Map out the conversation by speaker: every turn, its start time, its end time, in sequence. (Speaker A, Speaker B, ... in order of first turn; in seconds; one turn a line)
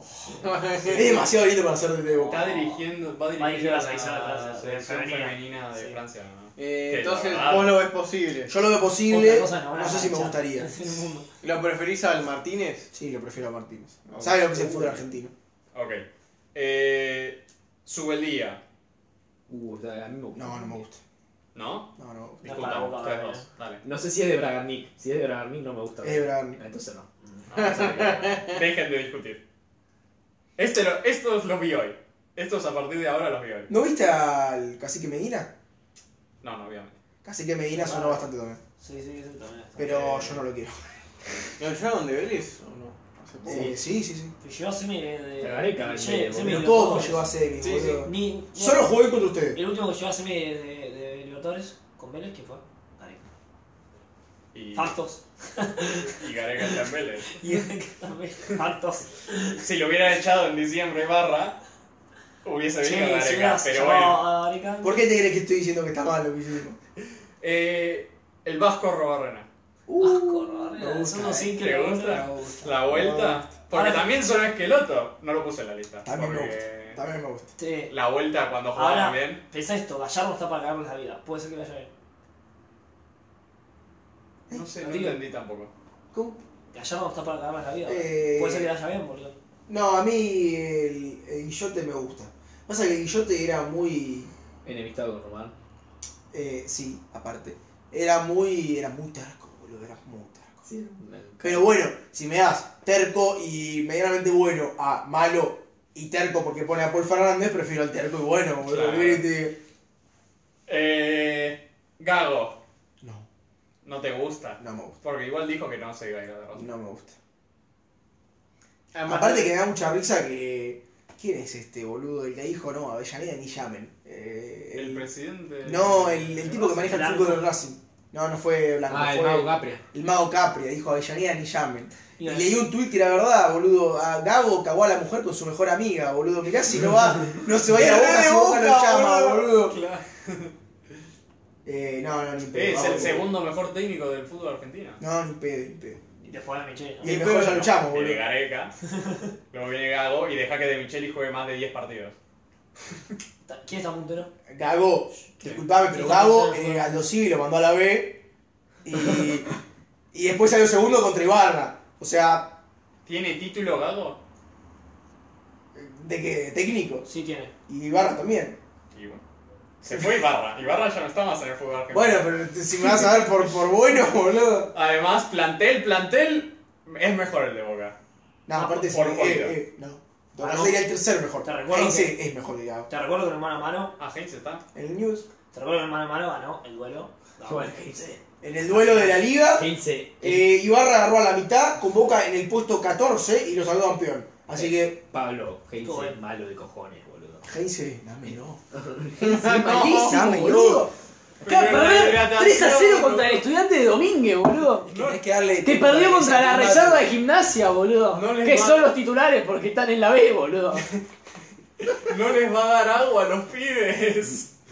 Speaker A: 0.3-1.3
Speaker B: 0.9-2.5
Speaker C: 2.3-7.8
Speaker D: 2.3-2.8
Speaker D: 3.4-6.0
Speaker A: 6.6-8.5
Speaker B: 8.5-10.7
Speaker D: 9.1-11.3
Speaker A: 11.4-12.9
Speaker B: 12.9-15.3
Speaker E: 14.2-15.0
Speaker C: 15.7-16.0
Speaker C: 16.5-18.6
Speaker E: 19.5-20.8
Speaker B: 20.4-21.0
Speaker C: 21.6-23.8
Speaker B: 22.0-22.4
Speaker D: 22.4-23.5
Speaker E: 23.8-27.1
Speaker B: 26.0-26.6
Speaker C: 27.5-29.4
Speaker A: 27.6-28.6
Speaker C: 30.6-33.7
Speaker B: 33.7-35.5
Speaker C: 36.4-36.9
Speaker B: 37.2-38.6
Speaker D: 37.7-38.3
Speaker D: 38.8-40.1
Speaker B: 39.8-40.8
Speaker C: 39.9-40.4
Speaker A: 41.6-43.8
Speaker B: 43.5-44.3
Speaker E: 43.5-43.7
Speaker D: 44.4-48.9
Speaker E: 45.4-47.1
Speaker B: 46.4-49.6
Speaker A: 47.6-48.0
Speaker D: 49.5-53.2
Speaker C: 54.5-55.0
Speaker D: 54.8-56.8
Speaker C: 56.1-57.4
Speaker D: 57.3-59.6
Speaker C: 59.5-61.6
Speaker C: 62.4-64.2
Speaker D: 62.8-65.0
Speaker B: 64.8-66.8
Speaker C: 67.4-69.5
Speaker B: 69.9-71.5
Speaker D: 70.0-72.3
Speaker C: 71.4-77.0
Speaker B: 72.1-73.5
Speaker D: 73.7-74.1
Speaker B: 76.0-77.5
Speaker D: 77.6-77.9
Speaker C: 77.9-79.4
Speaker D: 78.8-81.9
Speaker C: 84.5-85.7
Speaker D: 84.8-85.2
Speaker B: 86.1-86.4
Speaker D: 86.7-89.4
Speaker B: 87.8-88.7
Speaker B: 89.7-94.3
Speaker E: 94.6-95.5
Speaker B: 96.3-100.7
Speaker E: 100.7-101.7
Speaker B: 101.4-109.6
Speaker C: 108.7-109.3
Speaker C: 110.7-112.6
Speaker B: 113.0-113.3
Speaker C: 113.8-116.7
Speaker B: 114.6-115.0
Speaker B: 116.5-117.2
Speaker A: 118.9-119.5
Speaker B: 119.0-125.0
Speaker C: 124.7-127.0
Speaker B: 125.6-139.8
Speaker D: 126.8-127.5
Speaker E: 128.9-129.8
Speaker D: 132.2-132.5
Speaker A: 137.7-139.5
Speaker C: 139.7-140.5
Speaker B: 141.7-143.3
Speaker C: 142.5-145.0
Speaker B: 145.0-146.0
Speaker D: 146.2-147.6
Speaker B: 147.0-148.2
Speaker C: 147.1-148.7
Speaker D: 148.9-149.2
Speaker C: 149.5-152.2
Speaker D: 153.5-154.3
Speaker B: 154.5-158.2
Speaker D: 155.9-157.0
Speaker B: 158.8-159.5
Speaker B: 160.1-162.6
Speaker C: 163.1-164.2
Speaker B: 165.7-167.1
Speaker D: 167.1-167.5
Speaker B: 167.7-168.6
Speaker C: 168.9-169.2
Speaker C: 169.8-173.3
Speaker B: 169.9-170.3
Speaker B: 171.9-174.7
Speaker C: 174.7-178.0
Speaker B: 178.5-182.9
Speaker C: 178.8-179.6
Speaker D: 180.4-180.8
Speaker D: 181.4-182.2
Speaker D: 182.9-184.0
Speaker C: 184.0-184.6
Speaker B: 184.8-185.3
Speaker D: 185.5-187.8
Speaker E: 187.4-188.2
Speaker B: 188.4-189.7
Speaker D: 188.7-189.2
Speaker E: 189.6-190.5
Speaker B: 190.2-195.0
Speaker E: 194.6-197.4
Speaker D: 195.8-196.2
Speaker B: 197.4-198.6
Speaker E: 198.7-200.9
Speaker A: 199.2-200.4
Speaker B: 199.7-200.9
Speaker C: 201.4-203.4
Speaker E: 201.4-204.9
Speaker B: 204.9-207.1
Speaker C: 204.9-205.2
Speaker E: 205.6-210.9
Speaker C: 208.1-208.9
Speaker C: 211.9-214.5